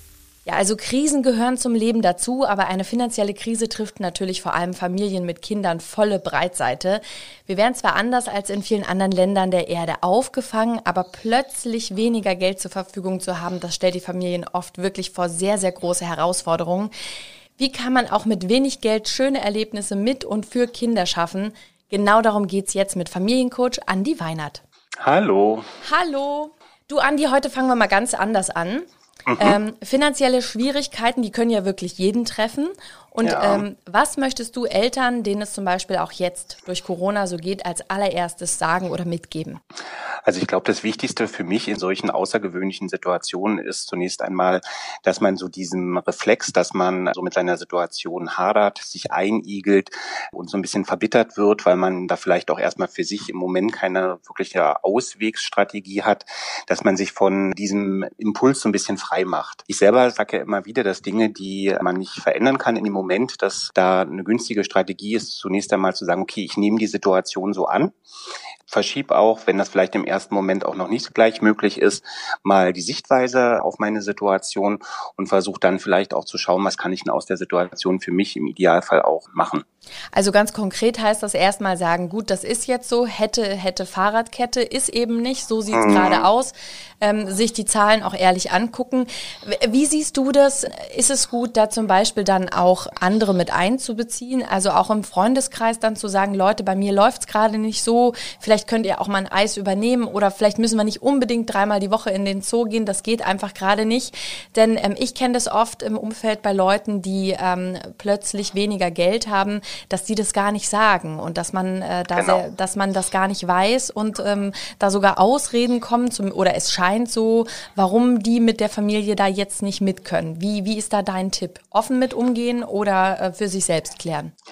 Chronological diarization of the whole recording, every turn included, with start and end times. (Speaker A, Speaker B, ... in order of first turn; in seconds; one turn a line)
Speaker A: 0.4-16.9
Speaker A: 17.6-24.6
Speaker B: 25.0-25.7
Speaker A: 25.8-39.6
Speaker B: 29.3-29.6
Speaker B: 33.2-33.6
Speaker B: 40.2-67.9
Speaker B: 68.7-79.6
Speaker A: 80.1-124.3
Speaker B: 85.7-86.2
Speaker B: 112.1-112.4